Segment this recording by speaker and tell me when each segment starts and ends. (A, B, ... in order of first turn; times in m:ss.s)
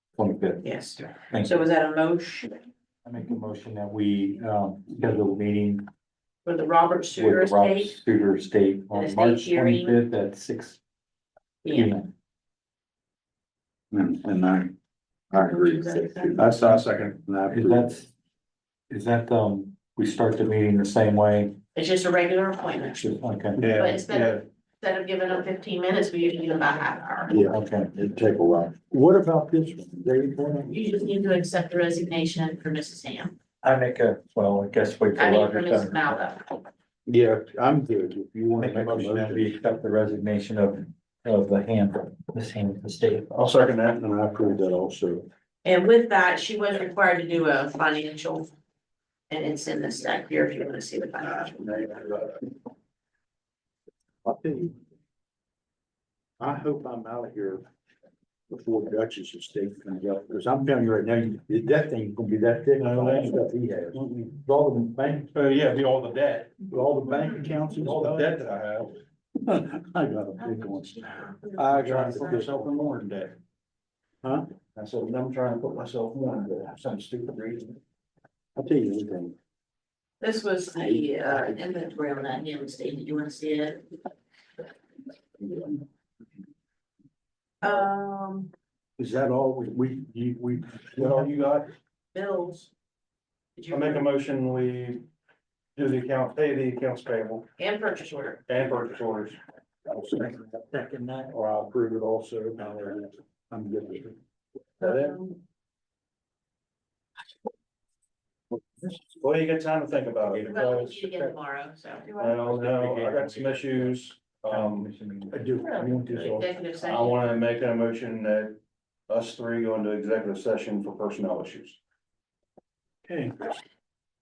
0:00.2-0:00.6 A
0:00.6-0:02.6 B
0:01.1-0:01.6 A
0:03.0-0:05.9 A
0:06.4-0:08.0 B
0:07.2-0:10.8 A
0:08.9-0:10.0 B
0:11.6-0:11.9 B
0:11.7-0:12.1 A
0:13.9-0:14.7 C
0:15.3-0:17.9 C
0:15.3-0:16.5 B
0:16.4-0:17.2 D
0:17.5-0:18.1 A
0:18.9-0:21.6 A
0:21.8-0:23.2 B
0:23.0-0:23.7 A
0:23.6-0:24.4 D
0:23.8-0:27.5 B
0:27.3-0:30.7 C
0:27.5-0:27.9 A
0:30.7-0:33.4 B
0:33.6-0:36.2 A
0:35.2-0:36.6 B
0:37.1-0:39.5 C
0:38.6-0:43.3 A
0:43.3-0:44.0 D
0:43.9-0:45.3 C
0:45.6-0:48.5 B
0:49.3-0:51.6 B
0:51.2-0:52.4 C
0:54.2-0:54.9 C
0:56.4-0:57.6 C
0:58.5-1:05.3 C
1:02.8-1:03.4 D
1:04.0-1:04.3 D
1:05.3-1:06.6 D
1:06.6-1:08.4 C
1:07.8-1:09.0 D
1:09.4-1:12.6 C
1:10.4-1:12.5 B
1:11.6-1:13.4 D
1:14.2-1:14.5 C
1:14.8-1:17.8 D
1:18.6-1:19.4 C
1:20.2-1:23.9 B
1:20.9-1:21.6 C
1:27.6-1:28.5 B
1:29.0-1:31.3 C
1:31.0-1:31.7 D
1:32.1-1:32.7 B
1:33.6-1:34.1 B
1:33.7-1:35.0 D
1:35.8-1:37.5 D
1:37.6-1:38.4 B
1:38.5-1:39.4 D
1:39.9-1:44.2 C
1:40.1-1:41.3 A
1:44.8-1:45.4 B
1:49.2-1:50.9 D
1:50.2-1:51.4 A
1:50.5-1:52.3 B
1:52.2-1:54.9 D
1:52.2-1:56.3 A
1:55.3-1:56.5 C
1:55.6-1:57.3 B
1:56.3-1:58.6 D
1:59.1-2:01.8 D
2:03.1-2:03.4 C